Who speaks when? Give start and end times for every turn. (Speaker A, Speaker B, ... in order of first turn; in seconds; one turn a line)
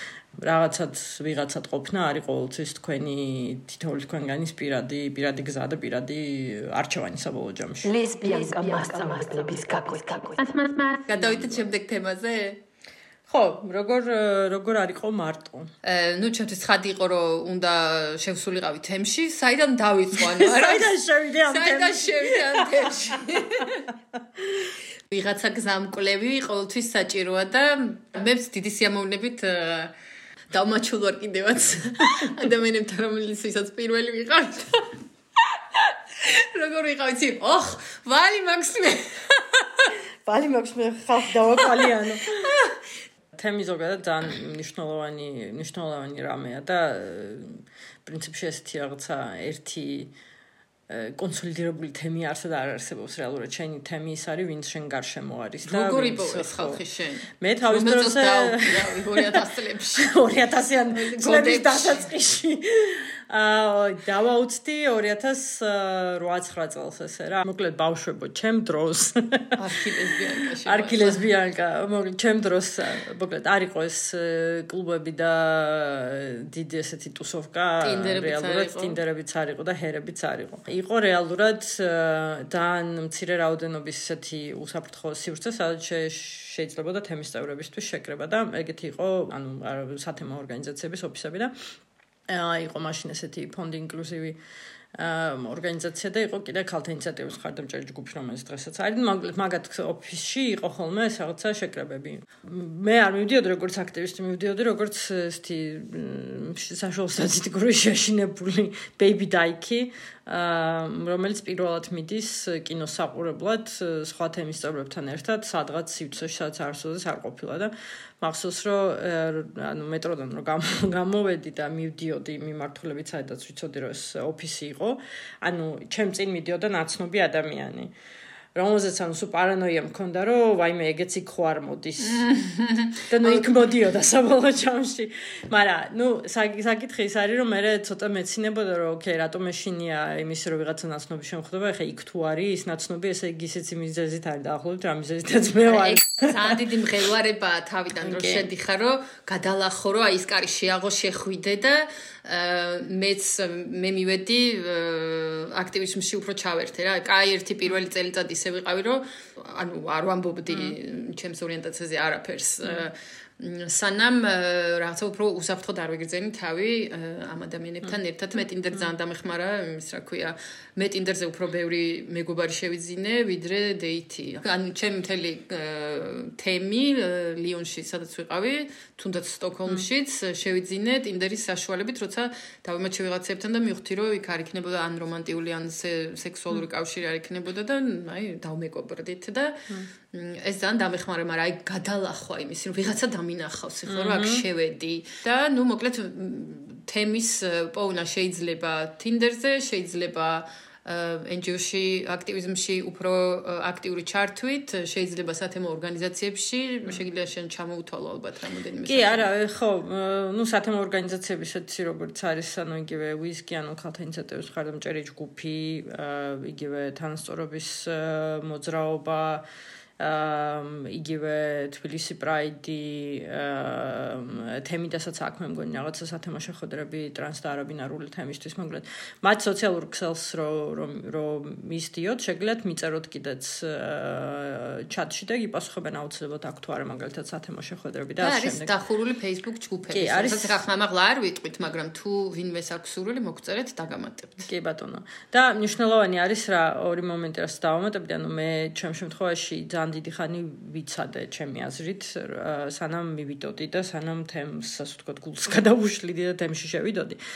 Speaker A: 0.4-8.0
Speaker B: 8.0-10.4
Speaker C: 10.4-12.6
Speaker A: 11.2-11.6
Speaker A: 13.3-15.7
Speaker C: 15.8-20.9
Speaker A: 20.1-24.7
Speaker C: 21.4-23.9
Speaker C: 25.1-29.9
Speaker C: 30.5-34.9
Speaker C: 35.5-39.9
Speaker A: 40.2-42.5
Speaker C: 42.4-42.7
Speaker A: 43.3-50.1
Speaker A: 50.9-56.8
Speaker C: 55.6-60.1
Speaker A: 57.4-69.6
Speaker C: 60.9-62.1
Speaker C: 69.5-71.3
Speaker A: 70.6-91.5
Speaker C: 77.8-79.0
Speaker A: 92.3-94.4
Speaker A: 94.9-127.9
Speaker A: 128.5-132.3
Speaker C: 132.0-133.4
Speaker A: 133.1-146.6
Speaker C: 145.6-209.3
Speaker A: 148.0-148.5
Speaker A: 160.5-160.8
Speaker A: 193.8-194.4
Speaker A: 208.8-219.4
Speaker A: 220.0-238.7
Speaker C: 238.2-244.5
Speaker A: 239.9-240.6
Speaker A: 244.4-257.2